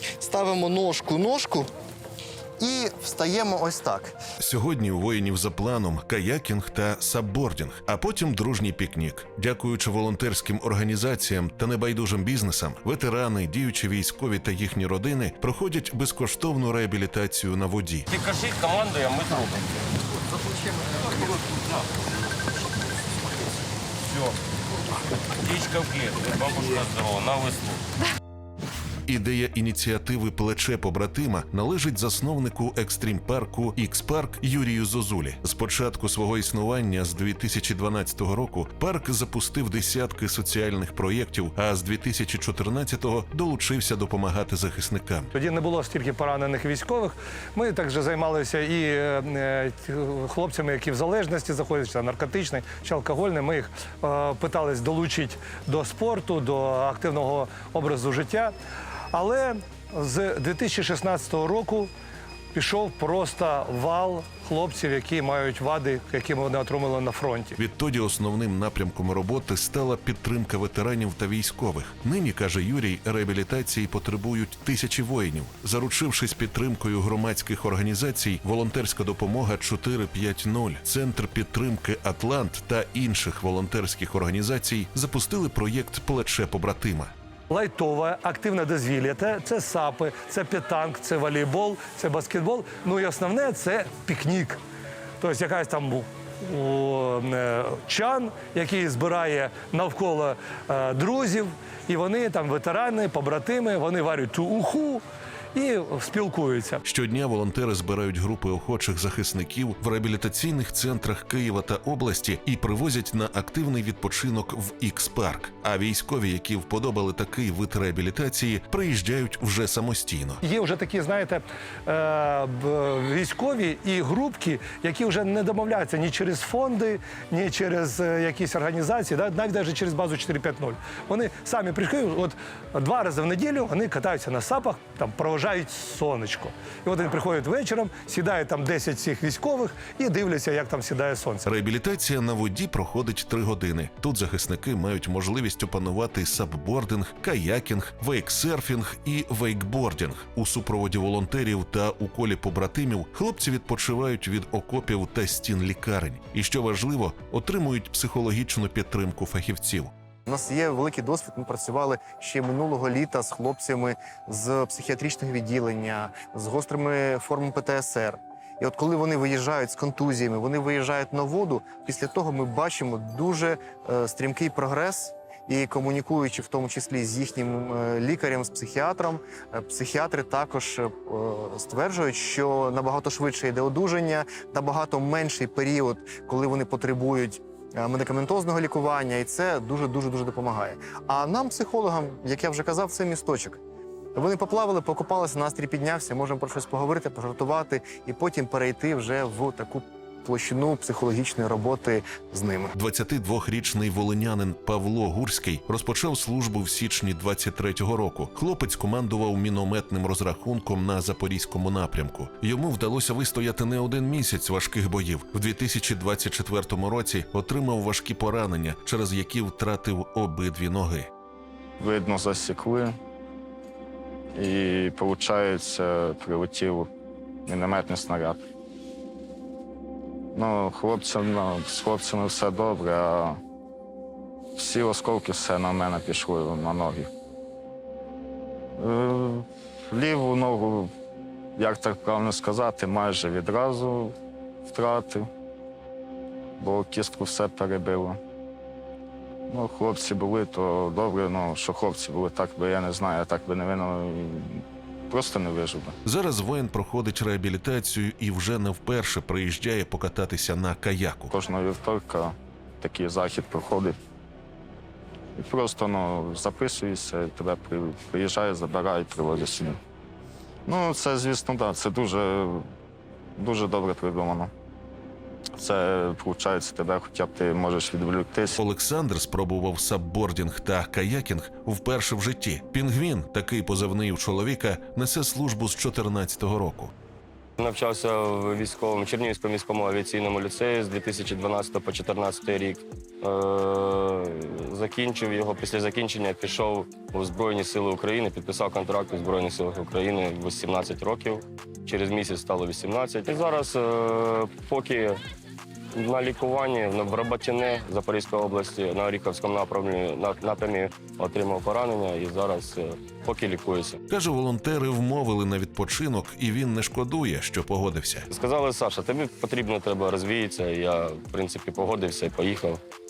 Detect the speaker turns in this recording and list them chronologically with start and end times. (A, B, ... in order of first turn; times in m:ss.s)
0:00.2-0:01.7 A
0:02.6-0:04.1 A
0:04.4-0:18.1 B
0:18.1-0:19.9 C
0:25.4-0:27.8 C
0:29.1-0:45.3 B
0:45.3-0:58.5 D
0:59.1-1:01.9 D
1:02.5-1:07.6 D
1:07.6-1:27.1 B
1:27.5-1:34.6 D
1:35.2-1:45.0 D
1:45.5-1:46.8 D
1:46.8-2:00.4 B
2:00.4-2:21.5 D
2:21.4-2:39.9 B
2:40.3-3:13.6 A
3:14.1-3:22.7 A
3:22.8-3:41.1 B
3:41.8-3:42.9 E
3:44.3-3:46.9 E
3:47.4-3:48.4 E
3:50.3-3:53.4 E
3:54.6-3:57.1 E
3:58.8-4:00.9 E
4:01.6-4:04.1 E
4:04.6-4:05.3 E
4:06.6-4:08.2 E
4:09.5-4:16.0 E
4:16.0-4:21.3 B
4:21.3-4:24.0 E
4:25.4-4:29.8 E
4:30.6-4:32.7 E
4:33.4-4:34.5 E
4:35.6-4:38.6 E
4:38.6-4:46.9 B
4:47.6-5:05.2 C
5:05.9-5:14.0 C
5:14.1-5:18.3 B
5:18.3-5:22.8 C